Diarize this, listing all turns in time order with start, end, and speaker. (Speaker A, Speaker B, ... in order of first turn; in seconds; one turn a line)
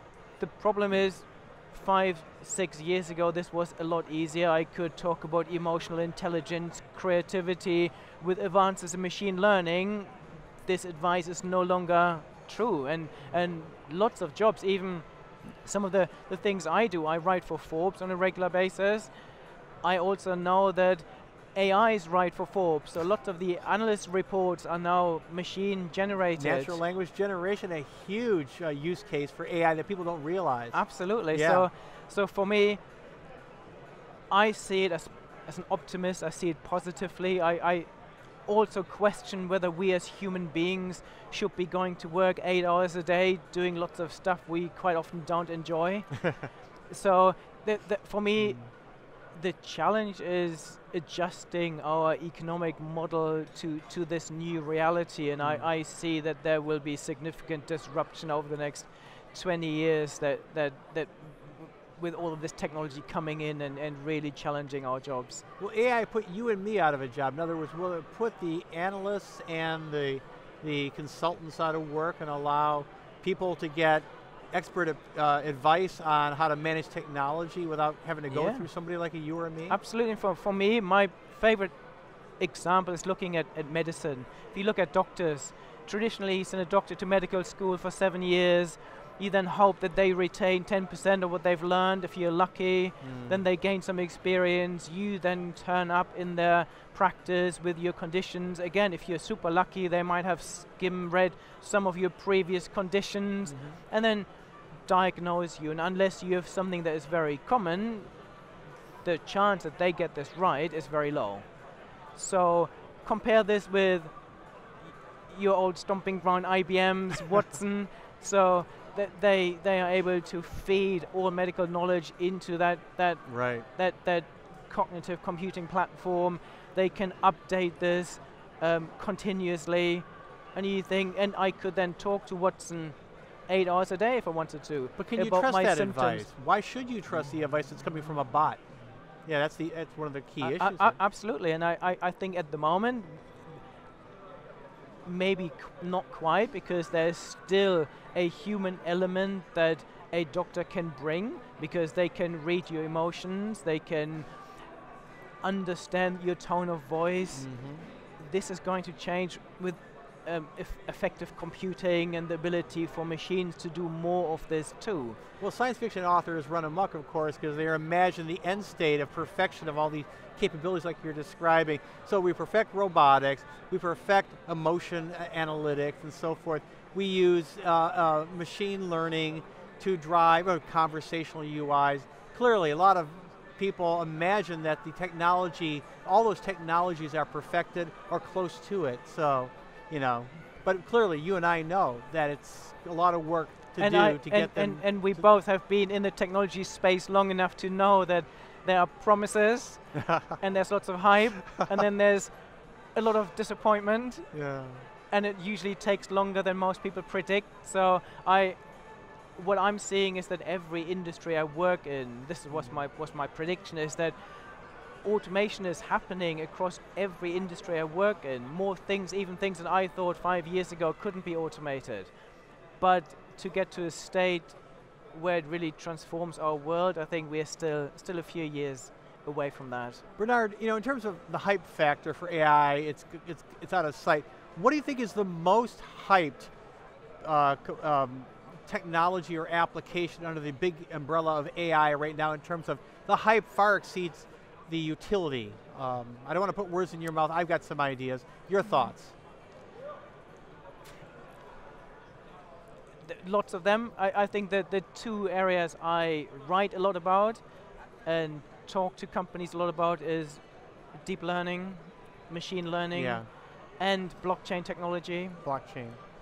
Speaker A: 0.4-19.1
Speaker A: 19.8-26.8
Speaker B: 26.4-31.7
Speaker A: 30.7-32.8
Speaker A: 34.3-37.9
Speaker A: 38.5-48.7
Speaker B: 48.4-48.7
Speaker A: 49.3-65.4
Speaker B: 55.4-55.7
Speaker B: 65.6-79.8
Speaker A: 78.3-78.7
Speaker A: 79.7-81.8
Speaker A: 82.4-104.3
Speaker B: 93.0-93.4
Speaker B: 103.5-103.8
Speaker A: 104.8-108.1
Speaker A: 109.0-111.5
Speaker A: 112.2-114.1
Speaker A: 115.3-136.3
Speaker B: 123.3-123.7
Speaker B: 135.0-138.6
Speaker B: 139.2-141.0
Speaker A: 140.4-143.4
Speaker A: 145.1-154.3
Speaker A: 155.4-157.5
Speaker B: 157.3-157.9
Speaker A: 158.2-165.2
Speaker B: 165.4-195.2
Speaker A: 193.8-202.3
Speaker B: 199.9-200.4
Speaker A: 202.9-204.3
Speaker B: 204.3-204.9
Speaker A: 205.1-208.6
Speaker A: 209.3-214.2
Speaker B: 212.5-212.8
Speaker A: 215.0-222.1
Speaker A: 222.8-224.6
Speaker A: 225.1-230.0
Speaker B: 230.2-236.5
Speaker B: 237.2-249.2
Speaker A: 253.0-257.4
Speaker A: 258.0-265.4
Speaker B: 262.9-263.3
Speaker B: 265.4-266.0